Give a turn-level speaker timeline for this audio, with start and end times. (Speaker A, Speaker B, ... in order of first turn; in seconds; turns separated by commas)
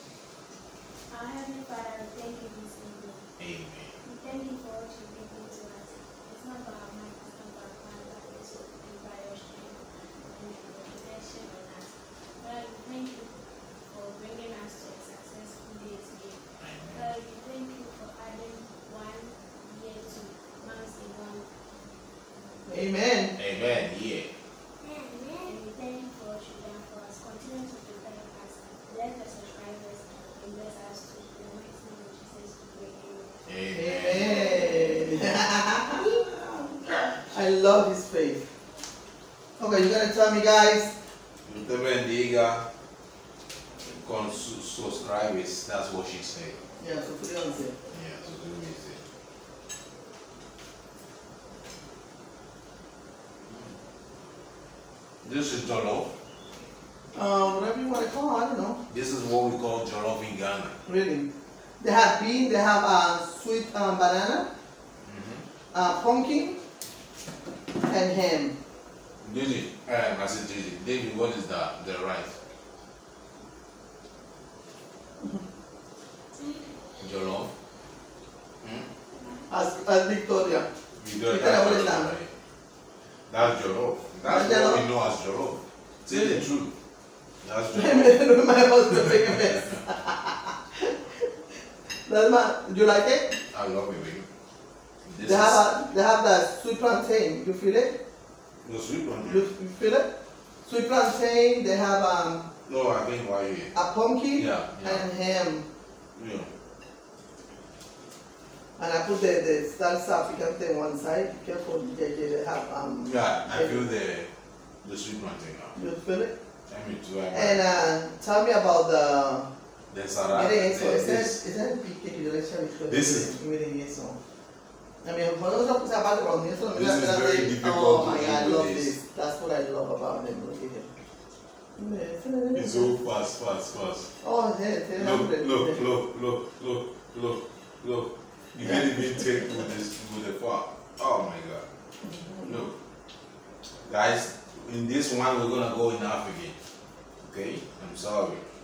Speaker A: 1.1-3.3, Speaker B: 3.4-3.9, Speaker A: 4.0-13.3, Speaker A: 13.9-21.5, Speaker B: 16.6-17.1, Speaker C: 22.7-23.3, Speaker B: 23.4-24.3, Speaker A: 24.8-33.4, Speaker B: 33.5-34.5, Speaker C: 33.7-38.4, Speaker A: 34.3-35.1, Speaker C: 39.6-40.9, Speaker B: 41.5-42.6, Speaker B: 43.8-46.6, Speaker C: 46.8-47.7, Speaker B: 47.9-49.0, Speaker B: 55.2-56.1, Speaker C: 57.1-58.8, Speaker B: 58.9-60.7, Speaker C: 60.9-61.3, Speaker C: 61.8-64.5, Speaker B: 65.0-65.4, Speaker C: 65.7-66.6, Speaker C: 67.8-68.6, Speaker B: 69.2-72.3, Speaker B: 77.0-77.5, Speaker B: 78.6-78.9, Speaker C: 79.5-80.7, Speaker B: 81.0-82.3, Speaker C: 81.3-82.1, Speaker B: 83.3-86.7, Speaker C: 84.2-84.8, Speaker C: 86.1-86.4, Speaker B: 87.4-88.3, Speaker C: 87.7-91.2, Speaker B: 89.1-89.4, Speaker C: 92.0-93.4, Speaker B: 93.5-94.2, Speaker B: 95.0-95.6, Speaker C: 95.2-98.0, Speaker B: 98.6-99.4, Speaker C: 99.2-100.1, Speaker C: 100.7-102.5, Speaker B: 102.7-103.7, Speaker C: 103.7-105.6, Speaker B: 104.3-105.1, Speaker B: 106.2-106.5, Speaker C: 108.8-113.8, Speaker B: 113.0-114.3, Speaker B: 114.8-115.7, Speaker C: 115.8-116.3, Speaker B: 116.7-117.6, Speaker C: 117.3-119.5, Speaker B: 119.9-121.4, Speaker C: 120.3-124.2, Speaker B: 122.9-123.3, Speaker C: 125.0-130.9, Speaker B: 126.7-128.9, Speaker C: 131.8-132.9, Speaker B: 132.5-134.1, Speaker C: 134.2-135.8, Speaker B: 135.0-141.6, Speaker C: 138.6-139.6, Speaker C: 142.1-142.6, Speaker B: 142.4-142.7, Speaker B: 143.8-146.5, Speaker B: 147.2-148.4